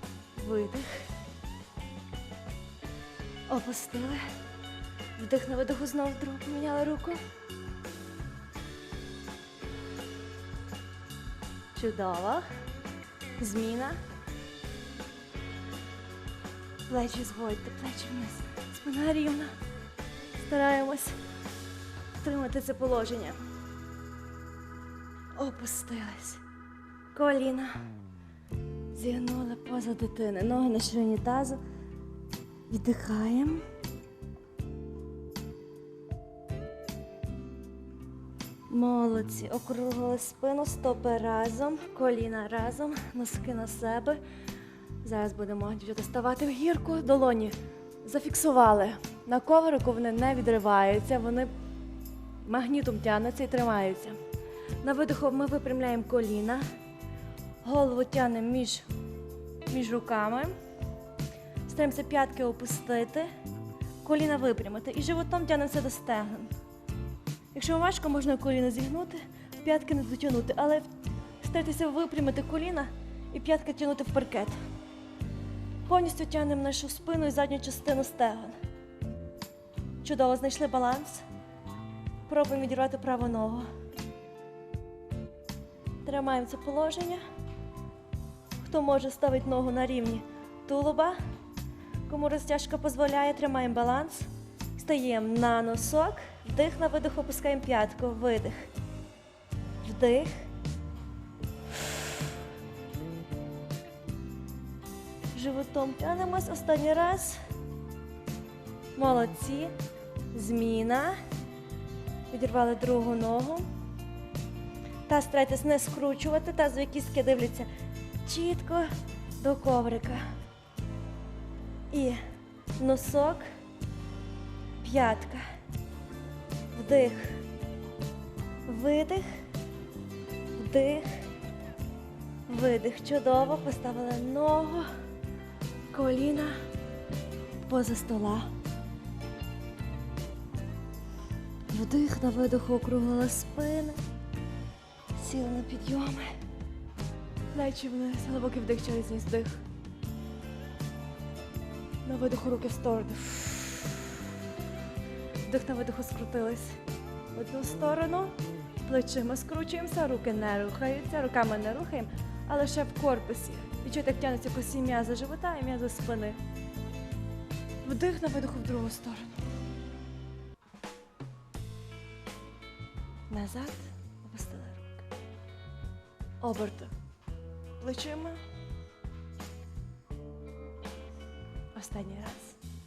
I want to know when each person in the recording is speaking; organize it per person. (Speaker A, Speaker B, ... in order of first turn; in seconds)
Speaker A: 0.3-1.1, 3.5-4.2, 5.2-7.2, 11.7-12.4, 13.4-14.0, 16.9-19.5, 20.3-21.2, 22.2-23.4, 25.4-26.4, 27.1-27.8, 28.9-31.6, 32.7-33.6, 38.7-44.2, 45.0-51.5, 52.4-54.2, 54.8-56.6, 57.6-58.9, 59.7-60.5, 61.6-63.3, 64.0-66.5, 67.5-70.9, 71.4-74.6, 75.8-78.5, 80.0-81.2, 82.3-83.7, 86.0-87.2, 88.6-91.2, 92.0-98.7, 99.8-100.5, 105.3-107.4, 109.0-109.7, 110.3-111.2, 112.3-113.7, 115.1-117.7, 118.2-120.3, 121.9-122.2, 122.8-123.5, 124.8-125.5, 126.7-127.4, 128.7-129.4, 130.5-131.2, 132.5-134.9, 135.9-136.6, 137.6-138.5, 141.7-144.0, 145.1-146.3, 147.5-149.6, 152.0-154.3, 155.4-156.8, 157.3-166.4, 167.8-169.4, 173.3-175.0, 176.4-176.9, 177.8-178.4, 181.7-182.6